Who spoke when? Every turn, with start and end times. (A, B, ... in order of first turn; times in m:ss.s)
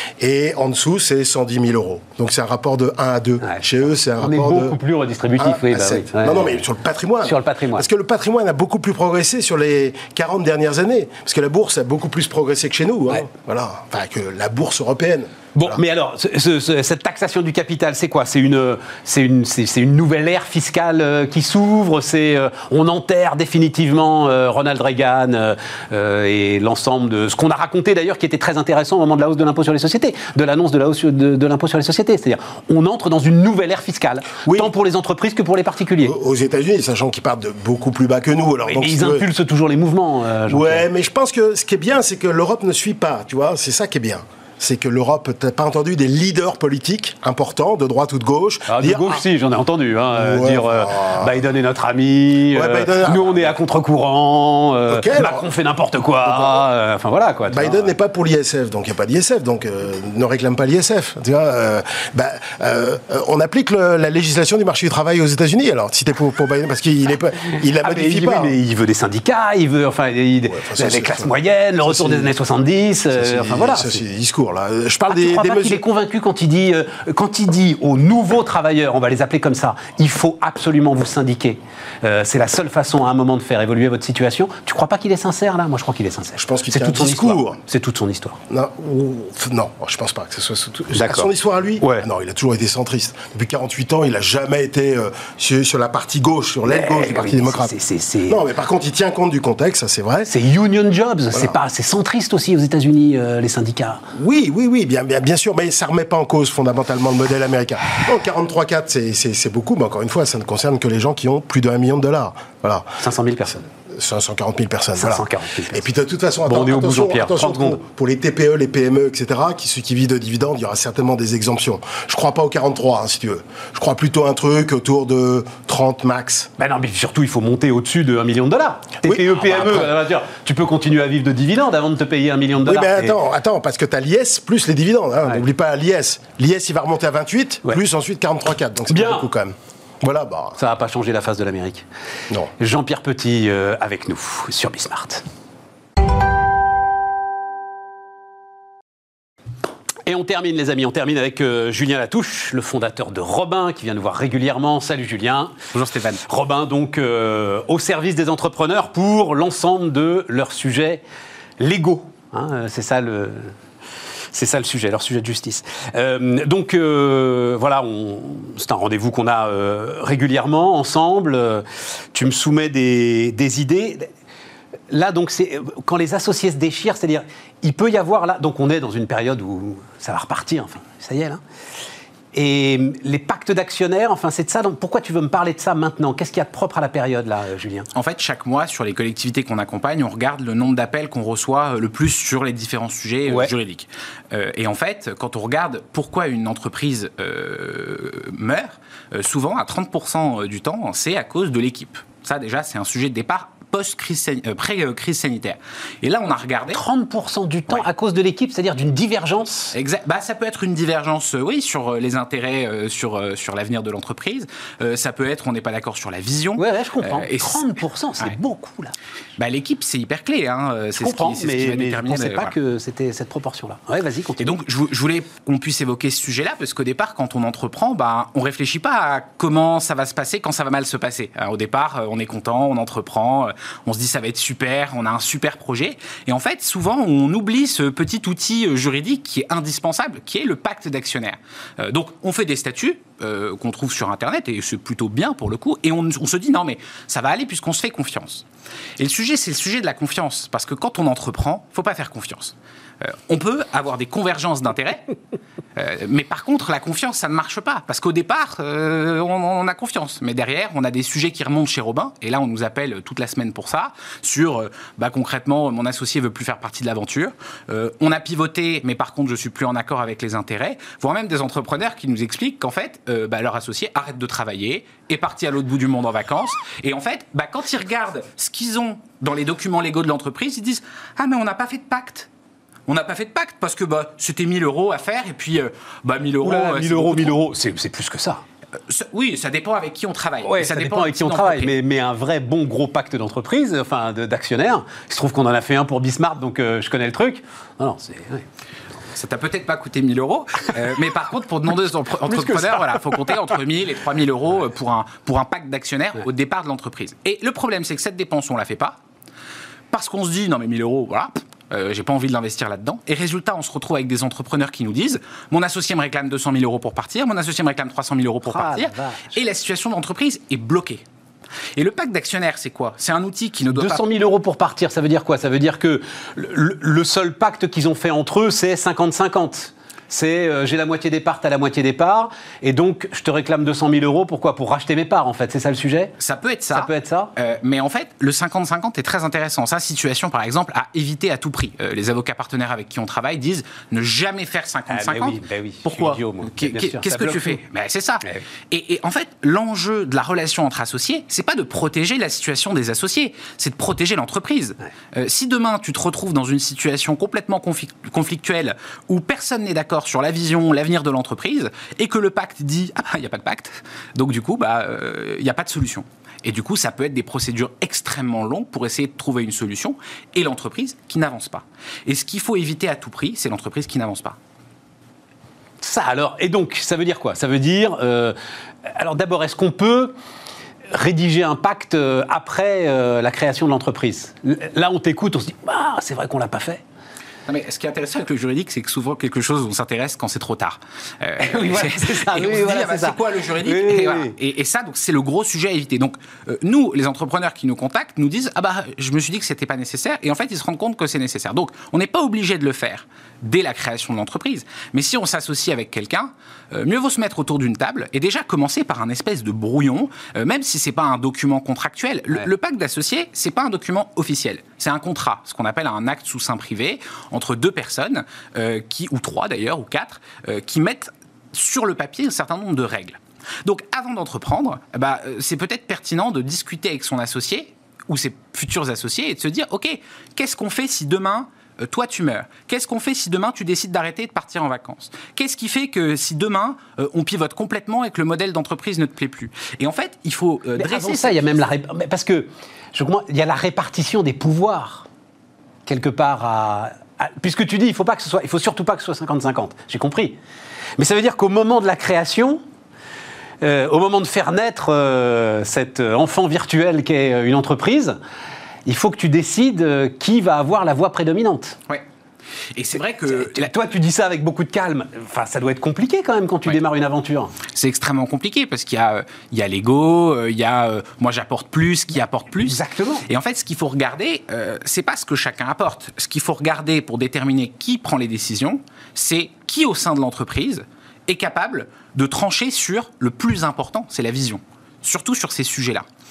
0:00.2-0:04.8 A
0:04.2-0:06.6 B
0:05.4-0:15.8 A
0:07.2-0:07.9 B
0:15.6-0:36.2 B
0:34.5-0:34.7 A
0:36.0-0:39.3 A
0:38.7-0:40.9 B
0:40.5-0:49.2 A
0:48.7-0:57.9 B
0:50.2-0:51.3 A
0:52.5-0:53.5 A
0:54.9-0:55.4 A
0:56.2-0:56.6 A
0:57.5-1:08.6 A
1:07.8-1:14.0 B
1:10.6-1:11.3 A
1:11.9-1:12.3 A
1:13.1-1:15.8 A
1:15.1-1:28.4 B
1:26.4-1:27.6 A
1:28.5-1:37.7 A
1:30.9-1:31.3 B
1:31.8-1:32.1 B
1:36.6-1:38.4 B
1:38.3-1:40.3 A
1:40.3-1:44.0 B
1:44.1-1:53.0 A
1:53.0-1:53.6 B
1:53.9-2:06.5 A
1:55.0-1:55.9 B
1:56.5-1:57.8 B
2:06.6-2:13.2 B
2:09.0-2:09.9 A
2:12.6-2:20.6 A
2:18.9-2:19.3 B
2:20.6-2:21.9 B
2:22.6-2:25.2 B
2:30.0-2:35.6 B
2:35.7-2:36.2 C
2:36.2-2:41.0 B
2:41.6-2:43.5 B
2:44.3-2:54.1 B
2:54.9-3:01.4 B
3:02.3-3:07.9 B
3:08.0-3:26.8 C
3:13.3-3:13.5 B
3:26.7-3:29.8 B
3:29.7-3:37.7 C
3:36.6-3:38.9 B
3:39.4-3:42.5 C
3:41.0-3:44.6 B
3:44.4-4:08.4 C
4:09.0-4:15.0 C
4:15.8-4:42.3 C
4:42.9-4:47.3 C
4:46.4-4:48.4 B
4:48.9-4:51.7 C
4:50.4-4:58.5 B
4:59.2-5:09.0 C
5:02.3-5:03.3 B
5:09.9-5:21.0 C
5:18.4-5:19.4 B
5:21.8-5:24.0 C
5:23.7-5:36.2 B
5:36.2-6:14.4 C
5:36.7-5:37.3 B
5:44.9-5:47.6 B
6:15.8-6:18.4 B
6:18.9-6:20.2 B
6:20.9-6:26.8 B
6:27.5-7:21.5 C
6:31.4-6:34.4 B
7:20.8-7:25.1 B
7:25.9-7:30.4 B
7:31.0-7:32.6 B
7:33.6-7:38.2 B
7:38.9-7:41.8 B
7:42.8-7:43.7 C
7:43.0-7:47.6 B
7:47.7-8:06.0 C
7:52.6-7:53.2 B